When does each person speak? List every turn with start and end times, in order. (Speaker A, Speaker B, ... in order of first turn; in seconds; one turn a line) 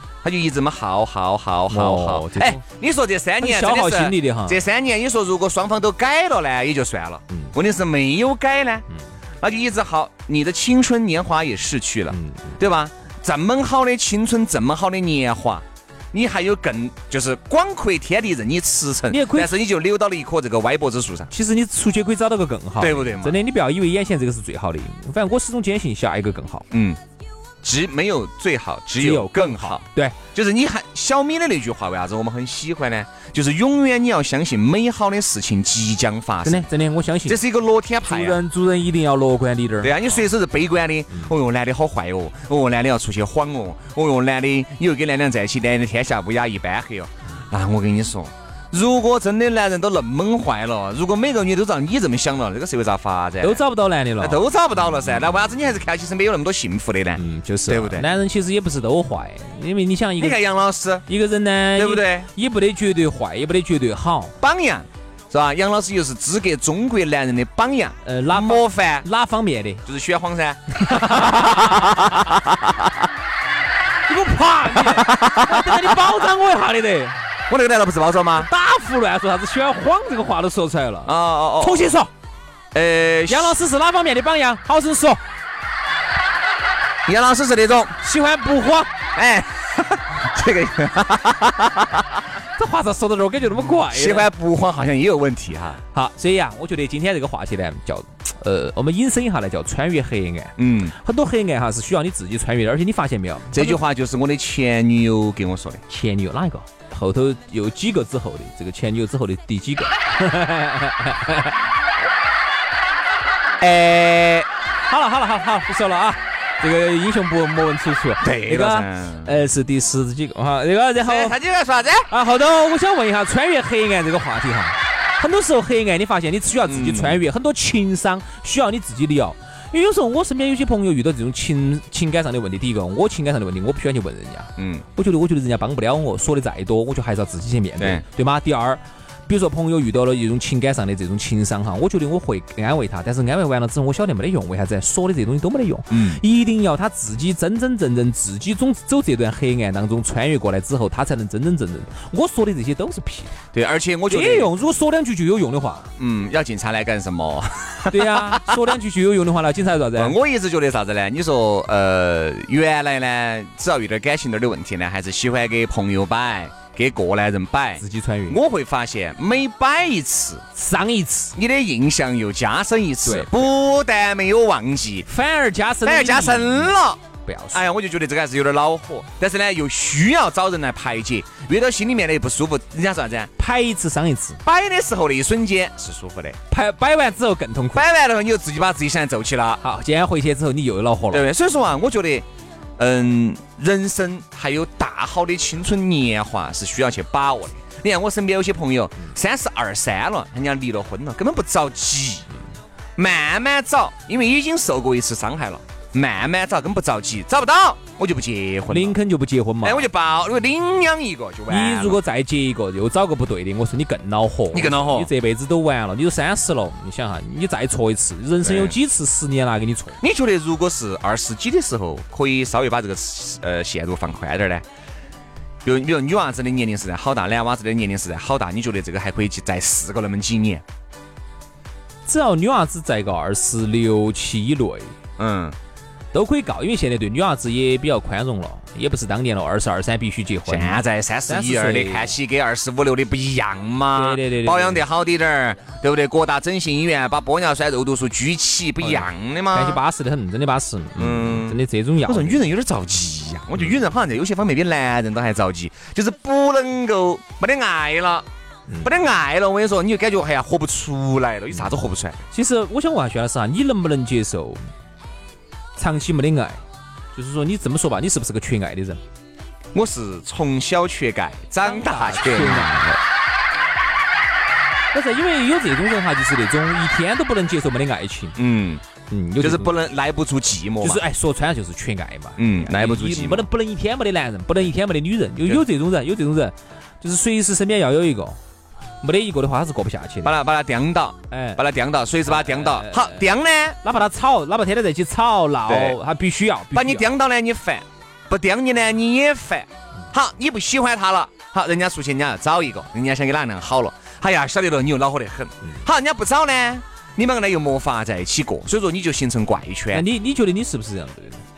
Speaker A: 0.2-8.8
Speaker B: 1.7-2.6
Speaker B: 3.4-4.6
Speaker A: 9.4-21.3
Speaker B: 12.1-12.6
Speaker B: 19.1-19.5
Speaker B: 21.3-26.6
Speaker A: 22.8-23.4
Speaker A: 26.7-27.0
Speaker A: 27.6-36.7
Speaker B: 29.0-30.2
Speaker B: 36.4-37.4
Speaker A: 37.2-38.4
Speaker B: 38.0-40.2
Speaker A: 39.8-53.6
Speaker B: 53.4-54.4
Speaker A: 54.2-58.1
Speaker B: 57.2-60.4
Speaker A: 60.2-61.0
Speaker B: 61.1-64.3
Speaker A: 61.7-62.3
Speaker A: 64.4-69.0
Speaker B: 68.0-69.8
Speaker A: 69.8-72.9
Speaker B: 70.8-72.2
Speaker B: 74.1-77.2
Speaker A: 74.7-76.1
Speaker A: 77.5-78.5
Speaker B: 78.4-82.1
Speaker A: 81.0-81.9
Speaker A: 82.7-83.6
Speaker B: 83.3-85.2
Speaker A: 87.0-87.9
Speaker B: 88.0-88.9
Speaker A: 89.1-92.2
Speaker B: 92.6-94.3
Speaker A: 93.9-95.8
Speaker B: 95.9-103.8
Speaker A: 100.6-101.0
Speaker A: 103.5-105.8
Speaker B: 105.9-111.5
Speaker A: 113.6-114.5
Speaker B: 114.9-121.4
Speaker A: 118.2-119.3
Speaker A: 121.0-122.1
Speaker B: 122.1-153.4
Speaker A: 126.7-127.2
Speaker A: 134.6-134.8
Speaker A: 145.9-146.2
Speaker A: 153.5-154.5
Speaker B: 154.1-155.9
Speaker A: 156.0-158.8
Speaker B: 157.9-160.2
Speaker A: 159.9-170.4
Speaker B: 167.8-168.4
Speaker B: 170.6-171.3
Speaker A: 171.3-175.1
Speaker B: 173.0-173.4
Speaker B: 175.1-176.7
Speaker A: 175.8-177.0
Speaker B: 177.2-177.6
Speaker A: 177.5-183.3
Speaker B: 183.4-184.4
Speaker A: 184.4-186.4
Speaker B: 186.5-187.8
Speaker A: 187.7-189.6
Speaker B: 189.6-191.2
Speaker A: 191.1-192.2
Speaker A: 192.8-202.3
Speaker A: 203.0-209.0
Speaker B: 208.7-209.9
Speaker A: 209.6-212.0
Speaker B: 211.5-220.0
Speaker A: 214.5-215.1
Speaker A: 218.4-218.8
Speaker A: 220.0-224.6
Speaker A: 225.6-230.6
Speaker B: 232.1-234.9
Speaker A: 235.2-235.6
Speaker B: 236.1-242.2
Speaker A: 240.4-249.8
Speaker B: 243.9-244.8
Speaker B: 248.8-252.5
Speaker A: 251.0-258.3
Speaker A: 258.8-262.2
Speaker B: 262.3-264.6
Speaker B: 265.8-266.6
Speaker B: 267.1-269.0
Speaker A: 269.7-272.9
Speaker B: 271.6-273.0
Speaker B: 274.9-278.4
Speaker A: 278.4-278.8
Speaker B: 279.1-279.8
Speaker A: 279.4-281.0
Speaker B: 280.8-288.4
Speaker A: 282.4-283.5
Speaker B: 289.0-290.3
Speaker A: 290.2-293.8
Speaker B: 291.3-291.6
Speaker B: 292.2-293.3
Speaker B: 293.8-297.1
Speaker A: 295.6-296.0
Speaker A: 296.7-310.1
Speaker B: 309.9-311.4